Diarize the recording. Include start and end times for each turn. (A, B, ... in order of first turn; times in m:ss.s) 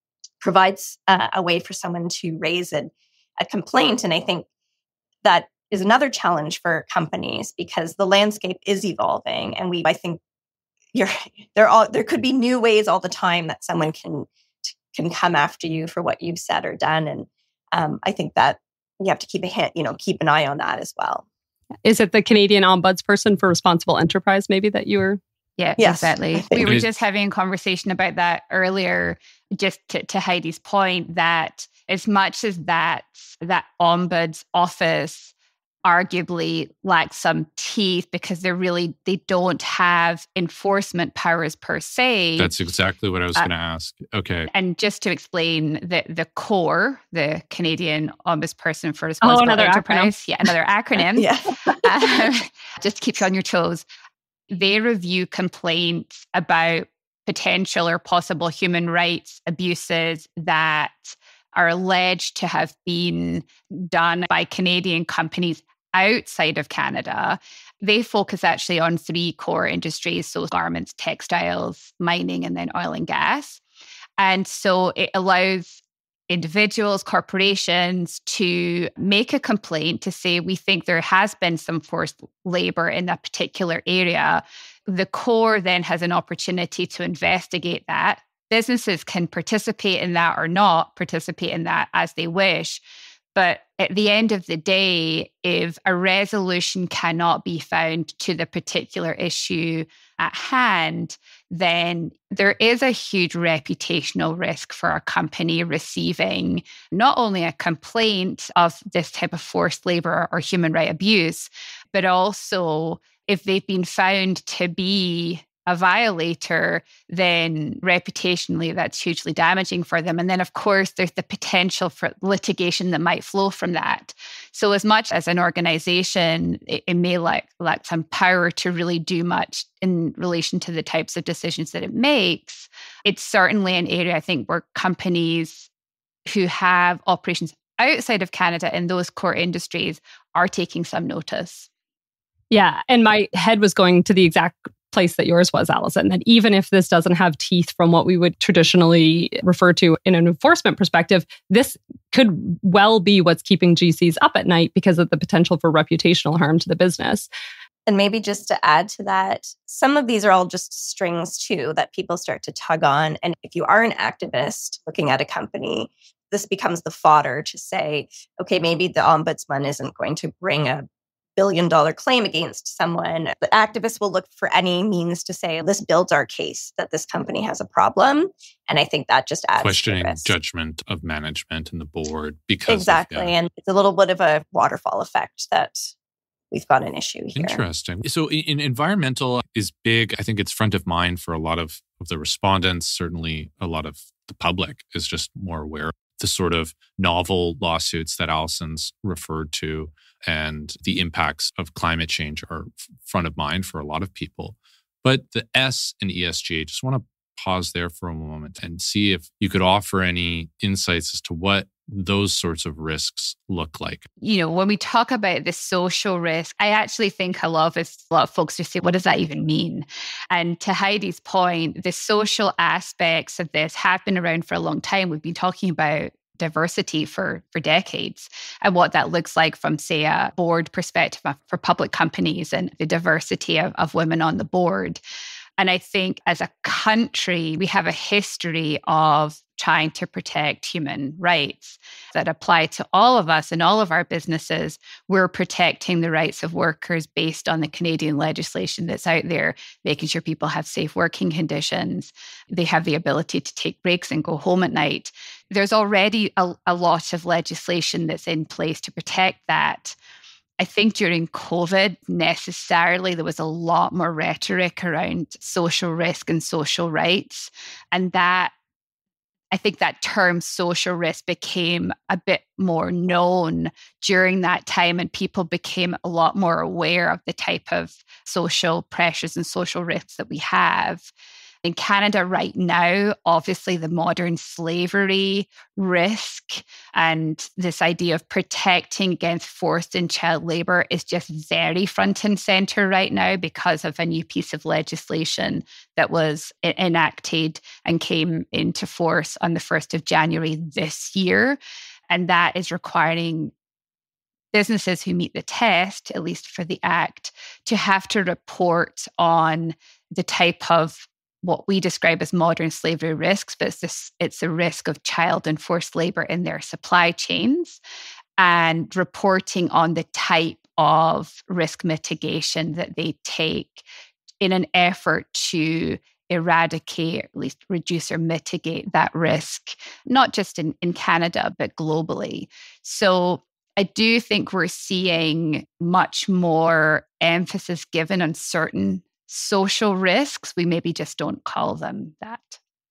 0:00.4-0:04.4 A
0:05.2-0:10.2 A
0:10.9-0:21.2 A
0:21.8-0:25.2 B
0:25.6-0:35.3 C
0:25.8-0:26.6 A
0:26.6-0:26.9 D
0:35.8-0:42.5 C
0:42.4-0:44.5 D
0:44.5-0:53.8 C
0:49.2-0:50.1 B
0:51.2-0:51.8 A
0:54.5-1:13.6 C
1:14.2-1:32.8 C
1:33.3-2:15.7 C
2:16.2-2:21.7 C
2:22.5-2:37.3 B
2:37.9-2:50.8 A
2:51.4-3:00.3 A
2:59.6-3:03.3 D
3:02.7-3:05.9 A
3:06.5-3:07.6 A
3:07.3-3:34.1 D
3:34.2-3:55.0 C
3:55.6-4:20.0 C
4:20.6-4:28.5 C
4:29.5-4:41.1 C
4:41.6-5:03.5 C
5:04.5-5:17.8 C
5:18.4-5:23.8 C
5:24.4-5:42.6 C